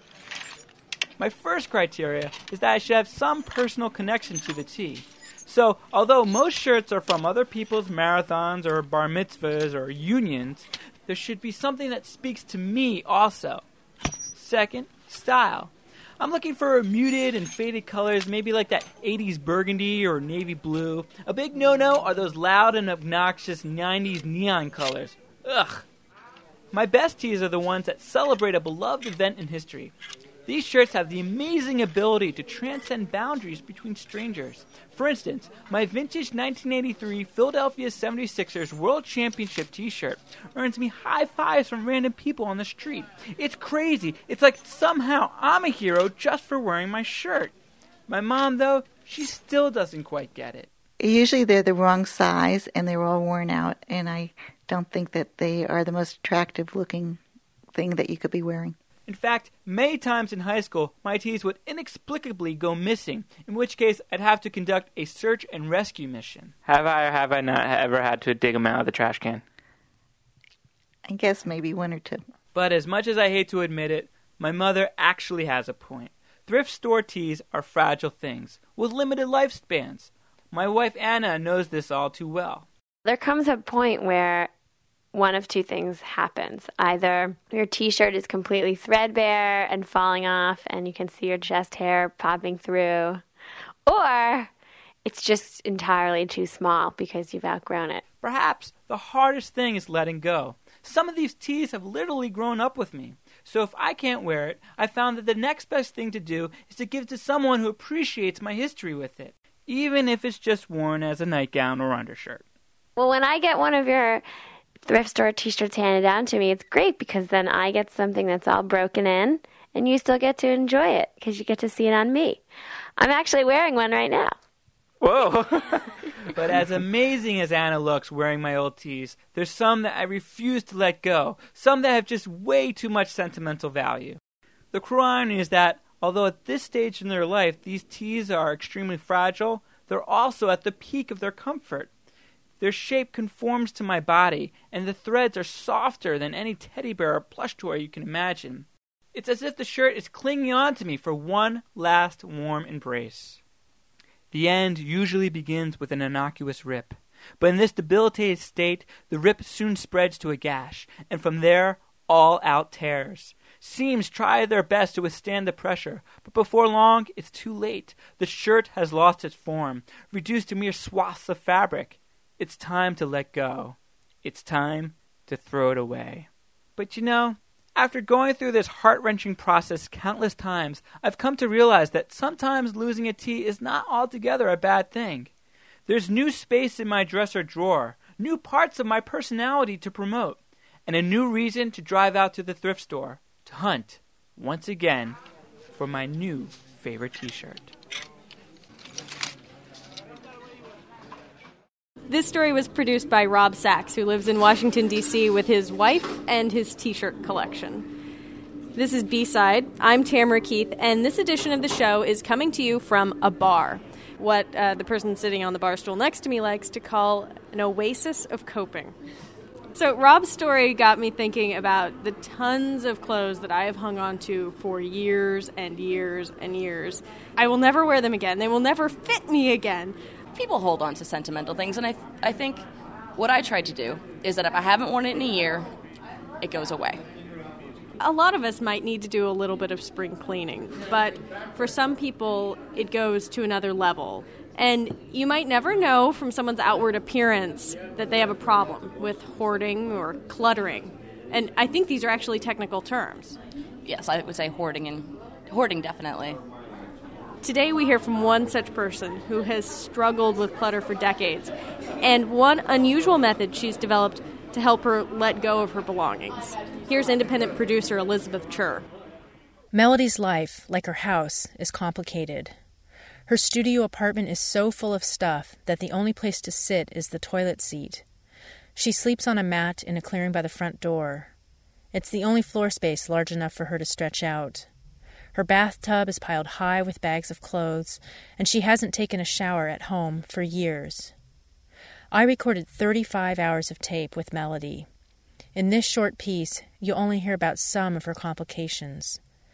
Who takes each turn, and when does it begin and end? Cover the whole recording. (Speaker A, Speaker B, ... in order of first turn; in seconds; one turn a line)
Speaker A: 1.2-13.6
Speaker A: 14.3-25.9
Speaker A: 26.7-29.9
Speaker A: 30.5-47.5
Speaker A: 48.1-50.7
Speaker B: 51.0-57.2
Speaker B: 57.7-58.8
Speaker A: 59.1-66.7
Speaker C: 66.7-69.4
Speaker B: 71.1-72.2
Speaker A: 72.5-82.7
Speaker D: 83.0-84.5
Speaker D: 85.1-93.2
Speaker D: 93.9-94.5
Speaker D: 95.0-98.0
Speaker A: 98.2-112.4
Speaker D: 113.0-114.2
Speaker D: 114.9-122.4
Speaker D: 123.0-124.4
Speaker C: 125.0-125.6
Speaker A: 126.3-134.2
Speaker A: 134.7-141.9
Speaker A: 142.6-153.4
Speaker A: 154.3-185.3
Speaker A: 185.9-195.2
Speaker A: 195.8-197.7
Speaker E: 202.1-207.9
Speaker E: 208.8-219.0
Speaker E: 219.8-230.0
Speaker F: 230.3-232.6
Speaker F: 233.2-235.7
Speaker F: 236.4-237.0
Speaker E: 238.0-253.4
Speaker F: 253.8-256.4
Speaker E: 257.4-268.9
Speaker G: 269.7-272.6
Speaker G: 273.3-278.0
Speaker G: 278.8-281.3
Speaker G: 281.9-284.7
Speaker G: 285.3-291.1
Speaker G: 292.1-294.9
Speaker G: 295.6-299.2